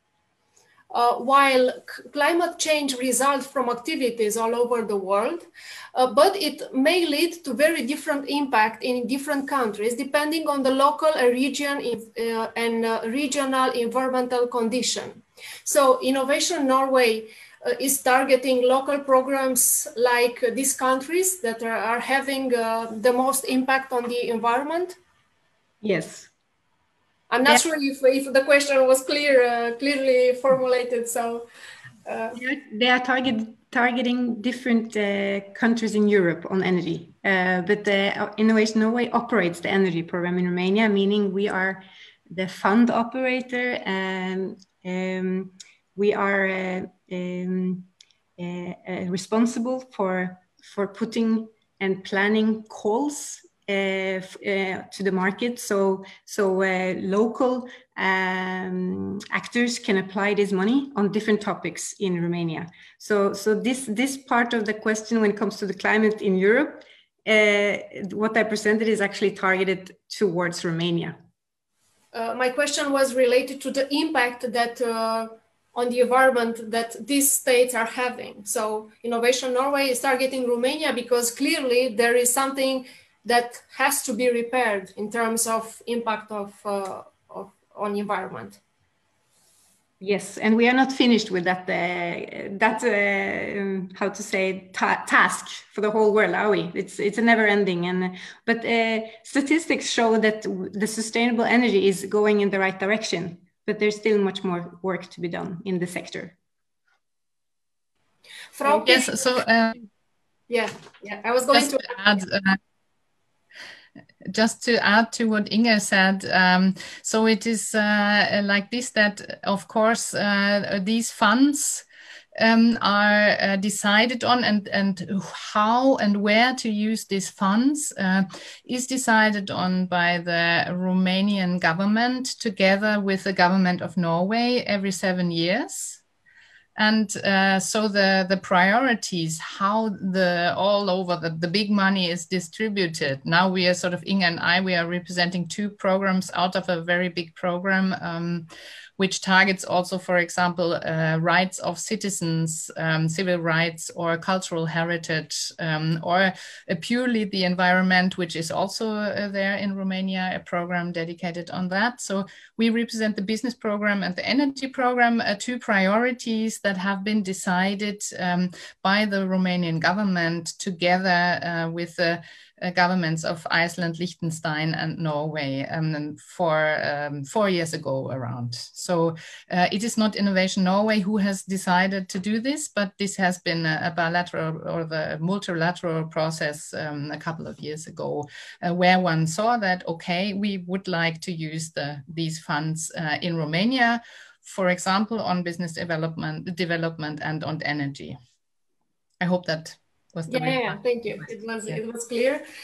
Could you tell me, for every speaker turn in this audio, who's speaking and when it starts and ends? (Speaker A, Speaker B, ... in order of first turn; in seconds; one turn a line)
Speaker A: 0.9-25.0
Speaker B: 25.8-26.3
Speaker A: 27.3-31.5
Speaker A: 32.1-32.4
Speaker B: 32.4-71.2
Speaker A: 72.1-88.6
Speaker B: 90.0-106.4
Speaker A: 108.5-109.3
Speaker C: 108.6-109.9
Speaker A: 110.5-112.0
Speaker C: 111.5-112.6
Speaker C: 114.3-121.8
Speaker C: 122.4-136.0
Speaker C: 136.8-148.5
Speaker C: 149.0-198.2
Speaker C: 199.2-200.8
Speaker A: 200.3-202.4